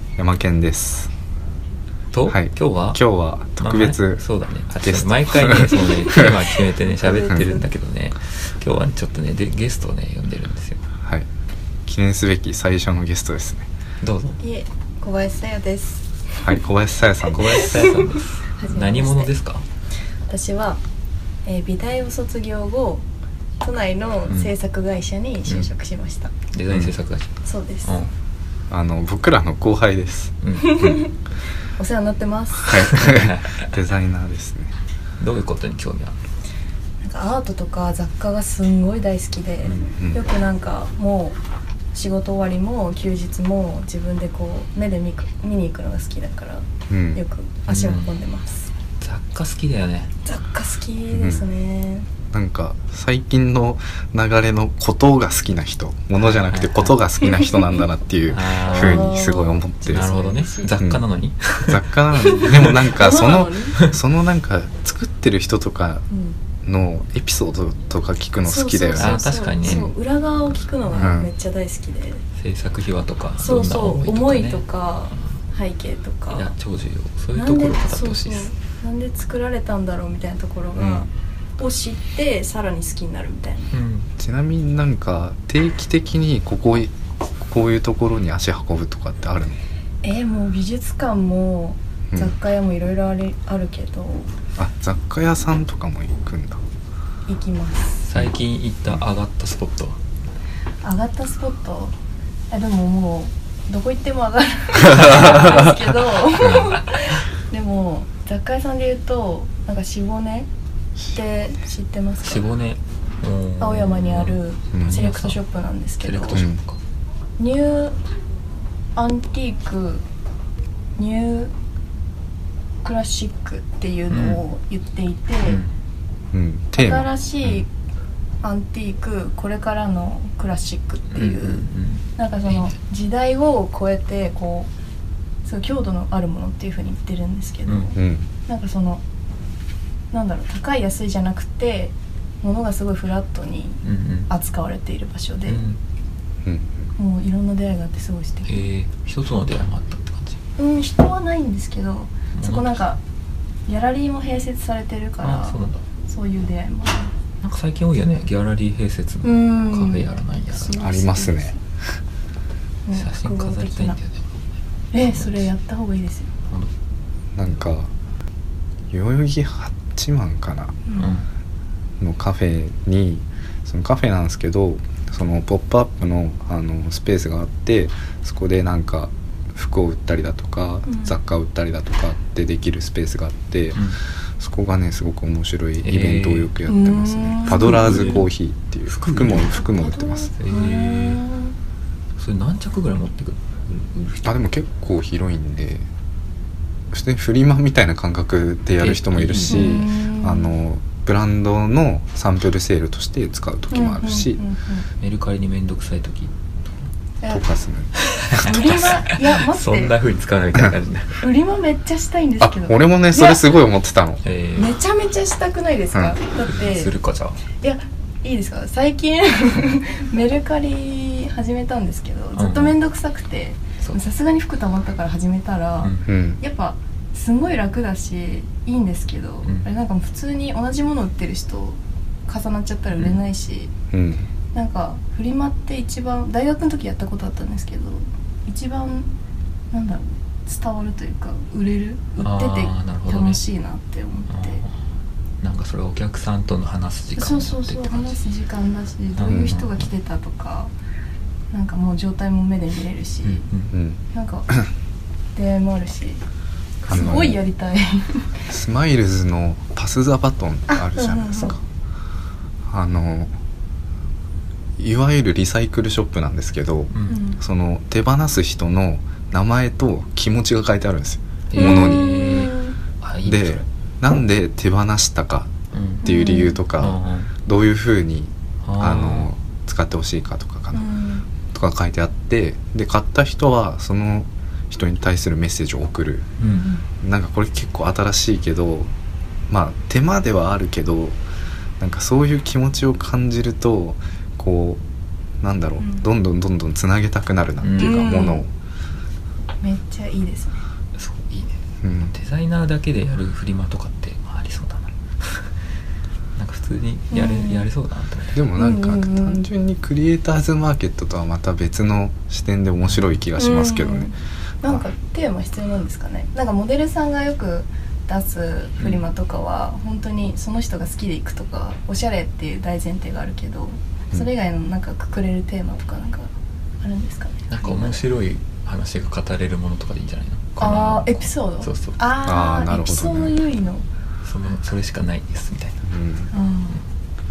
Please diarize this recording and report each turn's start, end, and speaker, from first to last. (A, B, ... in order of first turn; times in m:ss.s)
0:00.2-0:01.1 A
0:02.1-0:03.0 B
0:02.3-0:04.2 A
0:03.6-0:10.8 B
0:04.8-0:06.4 A
0:06.8-0:07.7 C
0:07.2-0:07.6 A
0:11.8-0:13.7 A
0:14.0-0:14.4 B
0:14.4-0:16.4 C
0:16.4-0:17.7 A
0:17.3-0:19.6 B
0:17.5-0:19.3 C
0:20.3-0:20.8 C
0:21.4-0:23.0 C
0:23.6-0:26.3 C
0:26.5-0:27.3 B
0:27.4-0:28.0 C
0:27.8-0:28.1 B
0:28.7-0:31.1 A
0:30.4-0:30.9 B
0:30.6-0:31.1 C
0:31.8-0:32.8 C
0:32.6-0:34.7 A
0:32.9-0:33.7 B
0:35.2-0:36.1 B
0:37.0-0:41.4 C
0:39.6-0:39.9 B
0:41.9-0:48.7 C
0:46.9-0:47.2 A
0:47.7-0:48.1 B
0:49.0-0:50.1 B
0:50.2-0:52.1 C
0:51.1-0:51.4 A
0:52.3-1:00.2 A
0:56.2-0:57.0 B
0:57.2-0:57.6 C
0:58.3-0:59.1 B
0:58.6-1:00.8 C
0:59.9-1:01.9 B
1:00.8-1:01.0 A
1:01.7-1:06.0 A
1:02.1-1:03.8 C
1:02.5-1:02.9 B
1:06.1-1:06.4 C
1:06.6-1:09.9 A
1:08.4-1:12.2 C
1:08.9-1:09.9 B
1:10.9-1:11.3 A
1:12.4-1:14.6 B
1:13.4-1:16.5 C
1:16.3-1:18.5 B
1:17.3-1:23.7 C
1:20.8-1:21.1 B
1:23.7-1:24.1 B
1:24.2-1:29.6 A
1:30.0-1:34.3 C
1:32.1-1:32.4 A
1:34.6-1:36.6 A
1:37.3-1:38.0 C
1:38.0-1:40.0 B
1:40.8-1:41.9 C
1:42.5-1:50.5 C
1:45.0-1:45.6 B
1:46.4-1:46.8 A
1:51.1-1:52.4 C
1:52.2-1:55.4 B
1:53.6-1:56.4 C
1:54.7-1:55.0 A
1:56.0-1:56.8 B
1:56.3-1:56.6 A
1:57.4-1:58.0 C
1:59.0-2:00.0 C
2:01.0-2:01.5 C
2:02.8-2:05.6 C
2:04.1-2:04.4 B
2:05.4-2:05.7 B
2:06.3-2:07.6 A
2:06.7-2:07.7 C
2:08.4-2:14.7 C
2:11.1-2:12.7 B
2:15.4-2:19.0 C
2:17.6-2:18.0 B
2:18.0-2:18.3 A
2:20.1-2:25.6 C
2:23.8-2:24.3 B
2:25.4-2:25.8 B
2:26.4-2:26.9 A
2:27.0-2:28.6 C
2:28.5-2:30.4 B
2:30.6-2:33.0 C
2:32.3-2:32.8 B
2:33.6-2:37.1 C
2:35.2-2:35.8 B
2:37.4-2:40.8 B
2:39.2-2:41.6 C
2:40.8-2:41.5 A
2:42.8-2:44.0 C
2:42.9-2:44.2 B
2:44.9-2:46.3 C
2:45.0-2:45.5 B
2:47.4-2:47.9 A
2:48.9-2:50.8 A
2:50.9-2:51.1 C
2:51.0-2:51.3 B
2:52.0-3:03.9 A
3:00.9-3:01.1 C
3:03.7-3:04.0 B
3:04.4-3:10.4 A
3:05.8-3:06.5 B
3:06.7-3:08.2 C
3:07.4-3:08.3 B
3:08.9-3:09.6 B
3:09.5-3:11.5 C
3:10.4-3:11.2 B
3:12.2-3:14.3 B
3:14.2-3:15.9 A
3:16.9-3:24.4 A
3:18.8-3:19.9 B
3:19.5-3:20.6 C
3:23.7-3:24.8 C
3:25.0-3:26.3 B
3:27.2-3:27.4 C
3:27.3-3:28.9 A
3:28.0-3:31.2 B
3:28.3-3:30.0 C
3:31.2-3:33.6 C
3:32.4-3:34.2 A
3:34.2-3:34.8 B
3:34.6-3:36.9 C
3:36.4-3:37.4 B
3:37.5-3:53.7 C
3:42.4-3:42.8 B
3:45.8-3:46.1 B
3:46.1-3:46.4 A
3:52.9-3:53.2 B
3:53.9-3:54.3 A
3:54.5-3:59.1 C
3:59.7-4:04.6 C
4:02.2-4:03.4 B
4:04.3-4:04.7 B
4:05.4-4:08.2 B
4:07.1-4:10.7 C
4:09.2-4:09.8 B
4:09.3-4:09.6 A
4:11.5-4:13.5 C
4:13.2-4:13.7 B
4:13.7-4:14.0 A
4:14.1-4:14.5 C
4:15.3-4:16.2 C
4:16.8-4:18.4 C
4:16.9-4:17.1 B
4:16.9-4:17.4 A
4:18.5-4:21.6 A
4:20.7-4:21.5 C
4:22.7-4:23.3 A
4:24.8-4:32.1 A
4:26.9-4:27.2 B
4:27.1-4:27.4 C
4:31.5-4:33.6 B
4:31.6-4:32.8 C
4:33.2-4:40.9 A
4:35.7-4:36.0 B
4:36.0-4:36.6 C
4:36.8-4:37.3 B
4:38.6-4:39.3 B
4:40.7-4:41.3 C
4:41.5-4:46.3 A
4:46.4-4:46.7 B
4:46.4-4:46.8 C
4:47.0-4:48.9 A
4:49.5-4:51.2 A
4:51.8-4:54.8 A
4:55.4-4:58.5 A
4:55.8-4:56.1 C
4:57.6-4:58.2 B
4:57.8-4:58.4 C
4:59.6-5:00.6 C
5:01.0-5:01.5 B
5:01.8-5:02.1 A
5:02.1-5:05.4 B
5:06.4-5:08.4 B
5:07.1-5:07.7 C
5:08.3-5:14.8 A
5:08.6-5:09.4 C
5:12.8-5:13.1 B
5:13.4-5:28.0 C
5:18.8-5:19.0 B
5:27.5-5:32.0 B
5:30.6-5:33.8 C
5:32.2-5:33.4 A
5:34.2-5:35.8 B
5:35.8-5:36.3 A
5:36.3-5:36.8 C